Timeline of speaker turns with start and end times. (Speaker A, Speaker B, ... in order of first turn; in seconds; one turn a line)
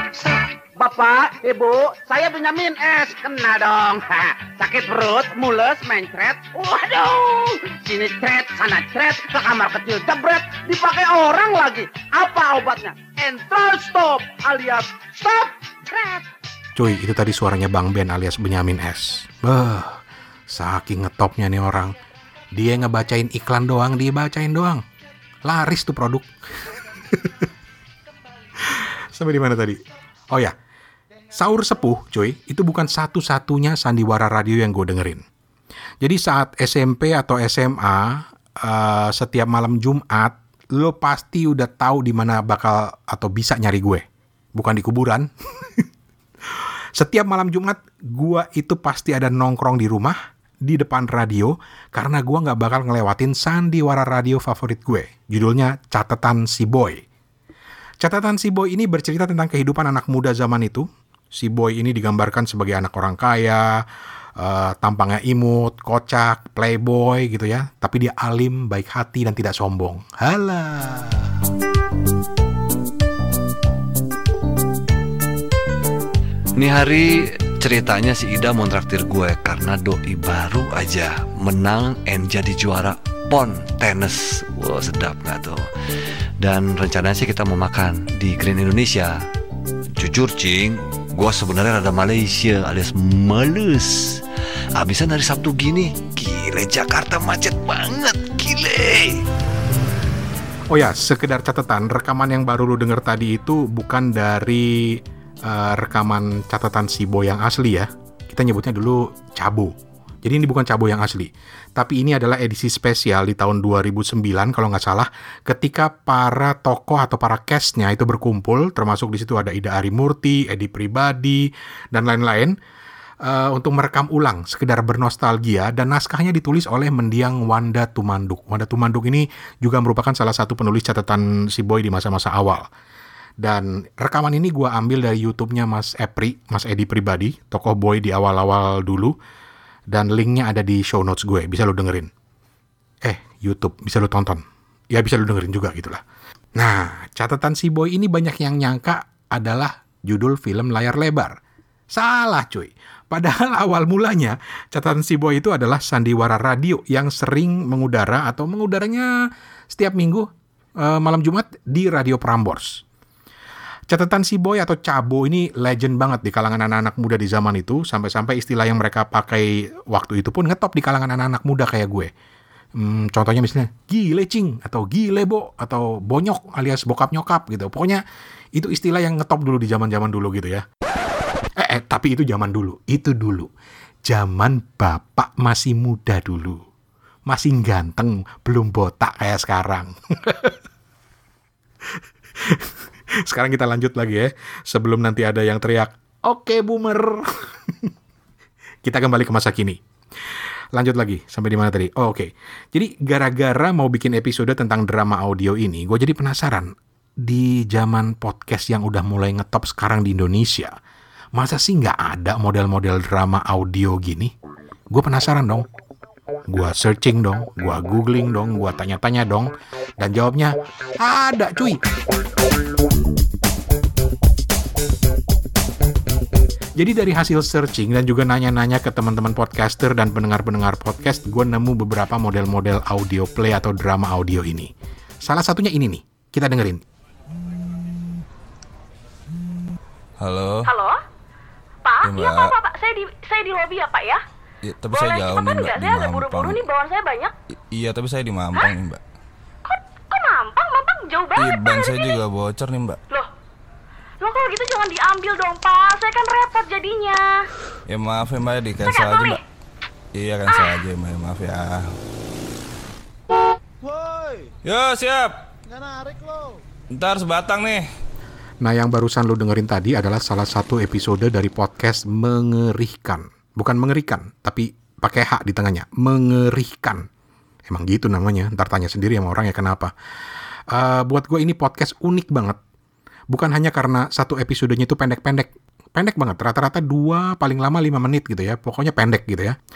Speaker A: 0.8-16.2
Speaker B: 16.8-21.9
Speaker B: 22.5-24.8
Speaker B: 25.5-26.3
Speaker B: 28.6-29.8
Speaker B: 31.3-35.2
Speaker B: 36.0-44.0
Speaker B: 44.5-45.9
Speaker B: 47.0-57.0
Speaker B: 58.0-63.8
Speaker B: 64.4-71.3
Speaker C: 76.6-85.7
Speaker C: 86.4-89.2
Speaker C: 90.0-94.2
Speaker C: 94.8-99.2
Speaker B: 100.7-122.5
Speaker B: 123.2-132.7
Speaker B: 133.4-139.1
Speaker B: 139.9-142.1
Speaker B: 143.0-146.0
Speaker B: 146.6-151.4
Speaker B: 151.9-159.1
Speaker B: 159.7-160.3
Speaker B: 160.8-162.8
Speaker B: 163.9-172.1
Speaker B: 172.8-178.0
Speaker B: 178.6-180.6
Speaker B: 181.6-183.5
Speaker B: 184.1-186.6
Speaker B: 187.3-190.5
Speaker B: 192.4-192.7
Speaker B: 193.3-197.3
Speaker B: 198.8-199.8
Speaker B: 200.7-210.7
Speaker B: 211.3-214.3
Speaker B: 214.9-215.7
Speaker B: 216.5-221.8
Speaker B: 226.8-234.7
Speaker B: 235.2-236.8
Speaker D: 240.2-240.7
Speaker E: 240.7-241.0
Speaker E: 241.8-244.2
Speaker D: 242.1-242.5
Speaker D: 244.7-246.6
Speaker E: 244.9-247.3
Speaker D: 247.7-249.0
Speaker E: 249.7-252.2
Speaker D: 251.4-253.0
Speaker E: 254.2-257.5
Speaker D: 257.9-259.4
Speaker E: 258.9-259.4
Speaker D: 260.1-261.9
Speaker D: 264.6-265.4
Speaker D: 266.9-267.9
Speaker B: 268.6-277.1
Speaker B: 277.7-279.9
Speaker B: 280.7-282.6
Speaker B: 283.3-289.6